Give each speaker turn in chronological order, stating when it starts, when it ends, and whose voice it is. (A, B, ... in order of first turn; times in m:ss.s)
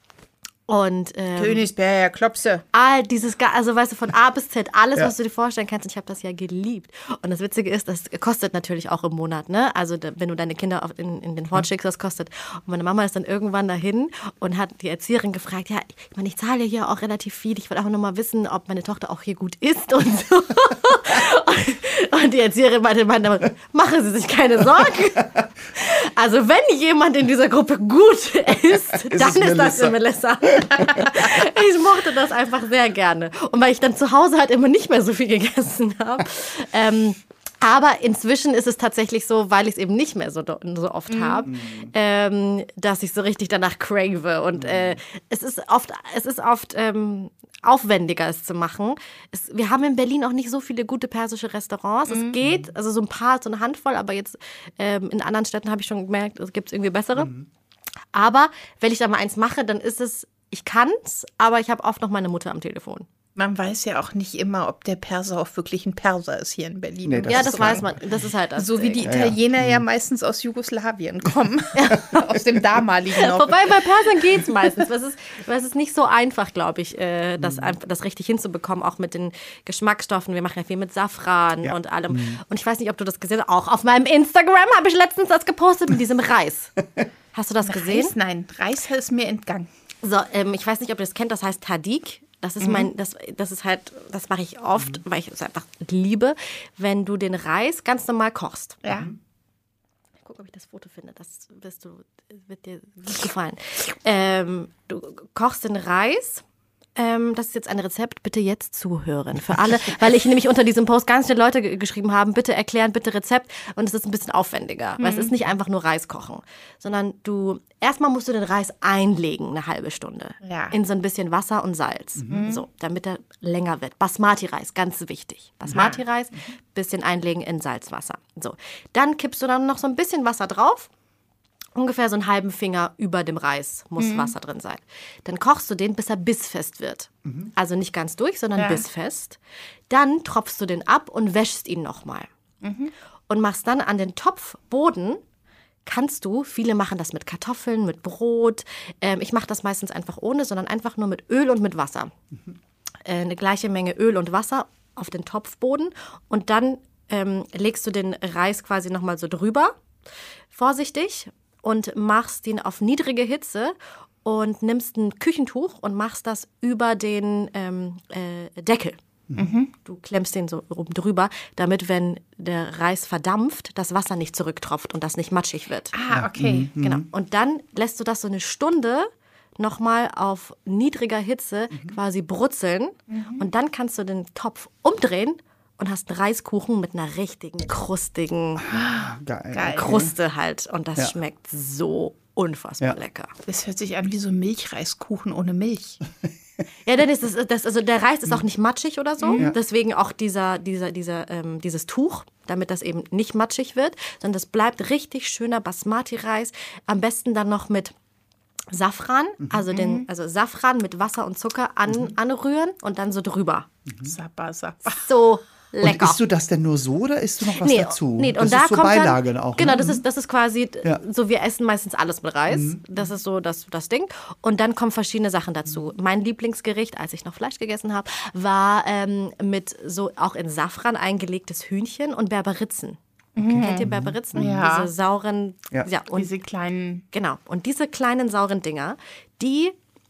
0:00.7-0:01.6 A
0:01.4-0:02.6 B
0:02.7-0:57.3 A
0:29.0-0:30.0 C
0:30.5-0:31.2 C
0:41.1-0:41.5 B
0:41.5-0:41.9 C
0:44.6-0:45.0 C
0:52.1-0:52.3 B
0:57.2-0:57.5 C
0:58.1-1:03.1 A
1:03.4-1:08.0 B
1:07.0-1:08.0 C
1:07.3-1:09.1 A
1:08.6-1:13.7 B
1:09.0-1:09.8 C
1:11.8-1:12.2 A
1:13.2-1:26.8 A
1:17.4-1:17.8 C
1:21.6-1:22.4 C
1:27.3-1:28.1 A
1:27.7-1:29.7 B
1:30.0-1:38.8 A
1:32.6-1:32.9 B
1:38.8-1:39.1 B
1:40.2-1:46.4 A
1:47.0-2:10.9 A
1:55.0-1:55.3 B
2:00.4-2:00.7 B
2:02.2-2:02.4 C
2:02.3-2:02.6 B
2:05.7-2:06.0 B
2:11.8-2:19.4 A
2:14.0-2:14.3 B
2:17.3-2:17.5 C
2:18.6-2:18.8 B
2:19.9-2:22.3 A
2:22.6-2:22.9 B
2:23.3-2:25.2 A
2:25.9-2:32.1 A
2:33.0-2:39.8 A
2:40.5-2:49.0 A
2:49.4-2:49.7 B
2:49.8-2:55.9 A
2:55.9-2:56.7 B
2:56.1-2:57.1 C
2:56.8-3:08.7 A
3:03.1-3:03.5 B
3:08.7-3:10.1 C
3:08.7-3:10.0 B
3:09.7-3:13.3 A
3:13.5-3:16.0 B
3:16.9-3:27.9 A
3:19.2-3:19.5 B
3:28.7-3:33.7 A
3:29.7-3:30.1 B
3:31.9-3:32.1 C
3:34.0-3:35.1 B
3:34.9-3:36.2 A
3:35.8-3:40.0 C
3:37.6-3:53.0 A
3:42.5-3:42.8 C
3:53.4-3:54.6 C
3:53.4-3:54.9 B
3:53.6-3:56.3 A
3:56.1-3:57.0 B
3:57.1-3:59.8 A